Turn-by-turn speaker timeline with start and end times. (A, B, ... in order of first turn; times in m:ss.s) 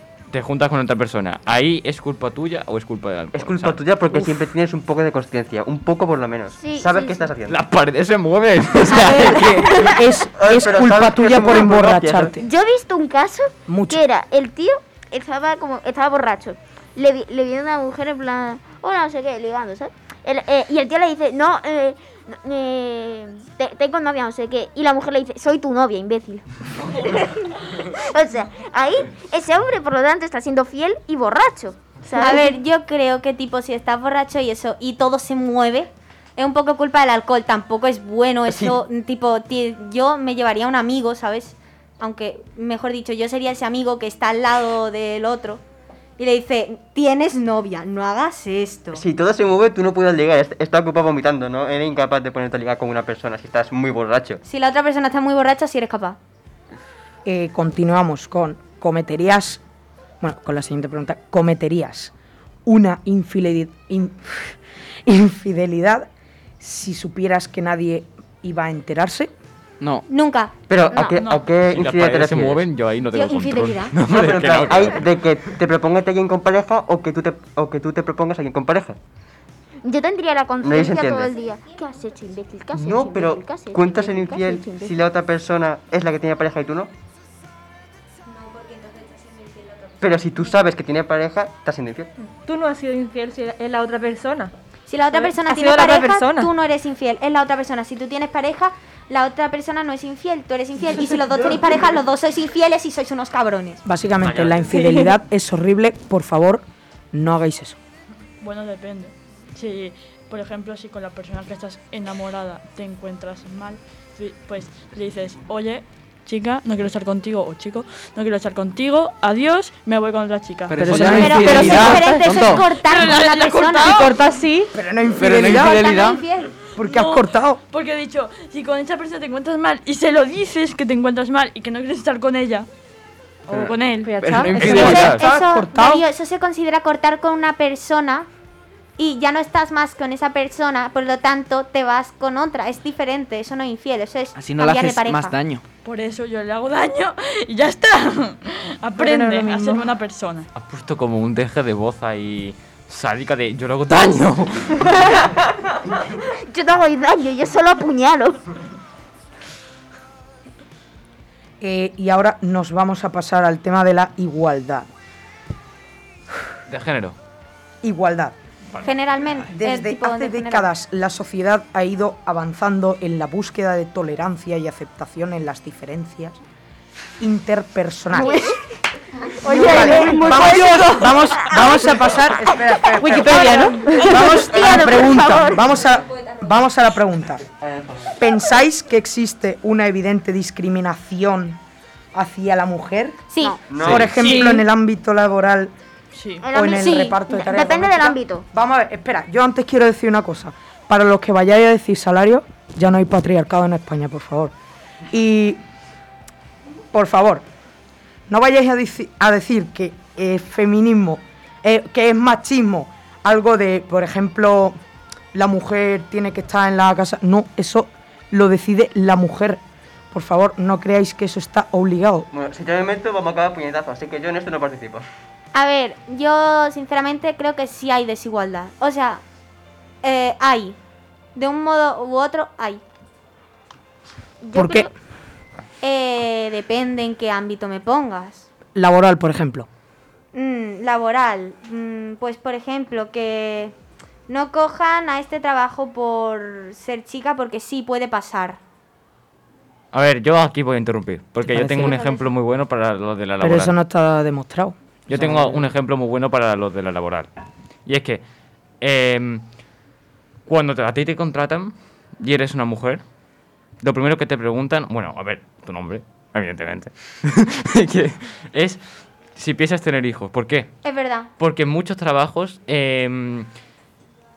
0:00.3-0:03.8 A
0:03.3-0:07.6 B
0:06.6-0:07.3 C
0:07.5-0:09.5 A
0:08.9-0:12.4 D
0:09.2-0:12.4 B
0:09.6-0:10.0 C
0:12.4-0:32.5 C
0:13.7-0:14.0 D
0:32.2-0:45.6 E
0:38.5-0:38.8 B
0:46.2-0:49.0 E
0:48.9-0:54.4 B
0:54.4-0:56.2 E
0:57.2-0:59.6 D
1:00.2-1:02.1 D
1:02.6-1:06.1 D
1:06.6-1:09.3 D
1:10.1-1:10.5 E
1:10.7-1:12.6 B
1:10.9-1:11.2 C
1:11.1-1:11.4 F
1:11.7-1:15.1 A
1:13.1-1:13.9 E
1:14.0-1:19.0 B
1:19.8-1:24.9 C
1:20.6-1:21.4 B
1:22.8-1:26.9 B
1:30.0-1:32.1 B
1:32.4-1:34.5 G
1:34.9-1:43.8 E
1:35.1-1:36.5 G
1:43.8-1:47.8 D
1:44.2-1:44.6 A
1:48.4-2:01.9 F
2:00.7-2:02.0 D
2:00.7-2:02.6 H
2:01.2-2:04.2 E
2:01.2-2:02.6 G
2:02.7-2:04.2 F
2:03.8-2:04.7 G
2:04.7-2:06.2 D
2:05.2-2:06.2 H
2:05.3-2:06.5 E
2:06.7-2:07.6 D
2:06.8-2:12.7 F
2:13.5-2:14.5 F
2:13.6-2:15.1 G
2:14.2-2:15.2 H
2:14.6-2:15.2 A
2:14.6-2:16.0 D
2:14.7-2:18.3 E
2:19.0-2:25.3 E
2:24.4-2:25.6 H
2:25.8-2:30.5 F
2:29.0-2:29.9 G
2:30.5-2:34.9 A
2:36.5-2:38.4 C
2:41.6-2:44.9 D
2:46.7-2:47.2 A
2:47.8-2:48.3 D
2:48.8-2:50.7 E
2:49.5-2:56.4 D
2:57.2-2:58.4 D
2:58.1-2:58.6 C
2:59.4-3:02.1 G
2:59.4-3:07.4 D
2:59.5-3:00.5 C
2:59.5-3:01.0 E
3:02.4-3:03.3 C
3:03.0-3:04.1 G
3:03.3-3:04.2 E
3:04.1-3:05.8 C
3:04.3-3:05.0 B
3:07.5-3:08.3 B
3:08.2-3:11.6 D
3:12.1-3:13.2 D
3:13.7-3:14.3 B
3:13.8-3:15.7 D
3:14.1-3:14.6 E
3:16.1-3:16.4 F
3:16.4-3:18.5 C
3:16.5-3:24.5 D
3:25.1-3:25.6 D
3:26.9-3:27.4 D
3:28.3-3:34.8 D
3:35.3-3:39.6 D
3:40.1-3:42.3 D
3:42.3-3:45.1 B
3:45.5-3:49.2 E
3:50.0-3:50.8 E
3:51.3-3:52.8 E
3:54.4-3:54.9 C
3:54.5-3:54.9 D
3:55.8-3:58.5 E
3:58.7-3:59.7 D
4:00.3-4:03.7 E
4:04.3-4:08.6 E
4:09.9-4:13.7 A
4:11.5-4:12.1 D
4:13.4-4:15.6 D
4:15.1-4:17.3 A
4:17.8-4:18.2 A
4:18.8-4:19.4 A
4:20.5-4:23.0 A
4:23.8-4:28.8 A
4:29.3-4:30.7 A
4:30.8-4:31.3 E
4:31.4-4:33.5 A